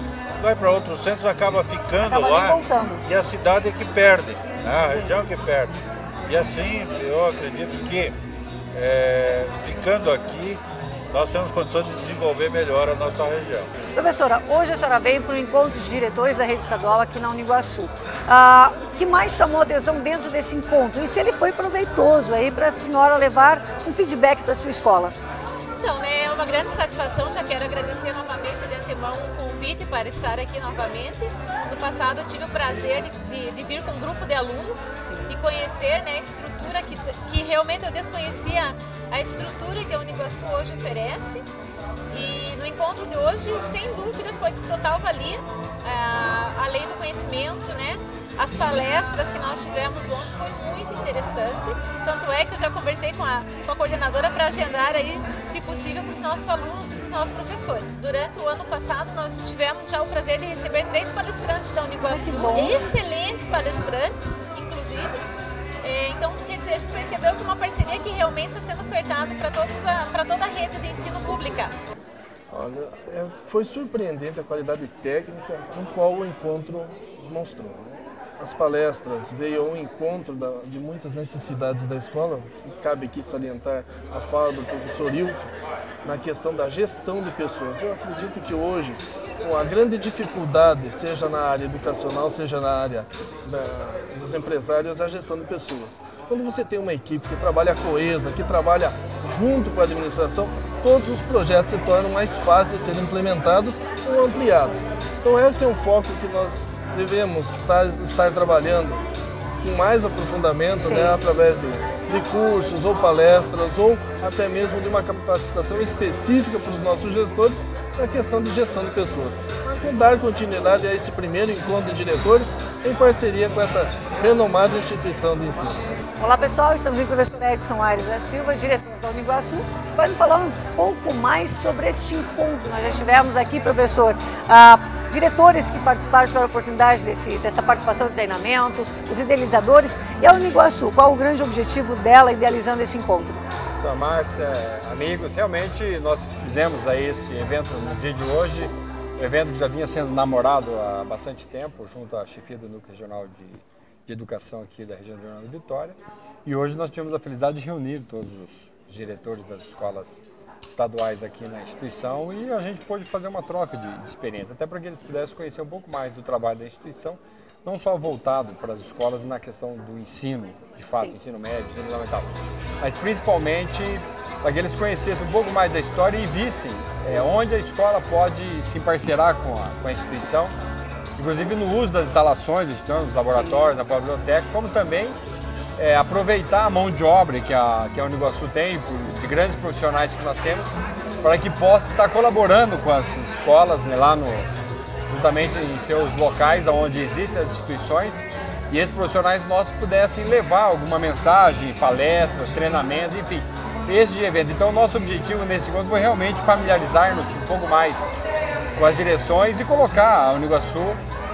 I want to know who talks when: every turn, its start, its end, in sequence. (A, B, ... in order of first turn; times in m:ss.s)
0:00.4-0:05.8 A
0:02.0-0:03.0 B
0:04.8-0:05.1 B
0:06.3-0:08.1 A
0:08.7-0:13.7 A
0:13.9-0:25.1 B
0:25.8-0:41.4 C
0:42.1-1:05.2 C
1:02.0-1:02.8 B
1:05.8-1:11.7 C
1:12.5-1:25.5 D
1:26.0-1:49.0 D
1:49.6-2:05.8 D
1:50.8-1:51.2 B
2:06.2-2:23.4 B
2:23.8-2:52.3 E
2:52.8-3:00.5 E
3:01.2-3:05.2 E
3:03.3-3:03.6 B
3:05.8-3:10.7 E
3:11.2-3:14.5 E
3:15.1-3:28.1 E
3:28.8-3:31.0 E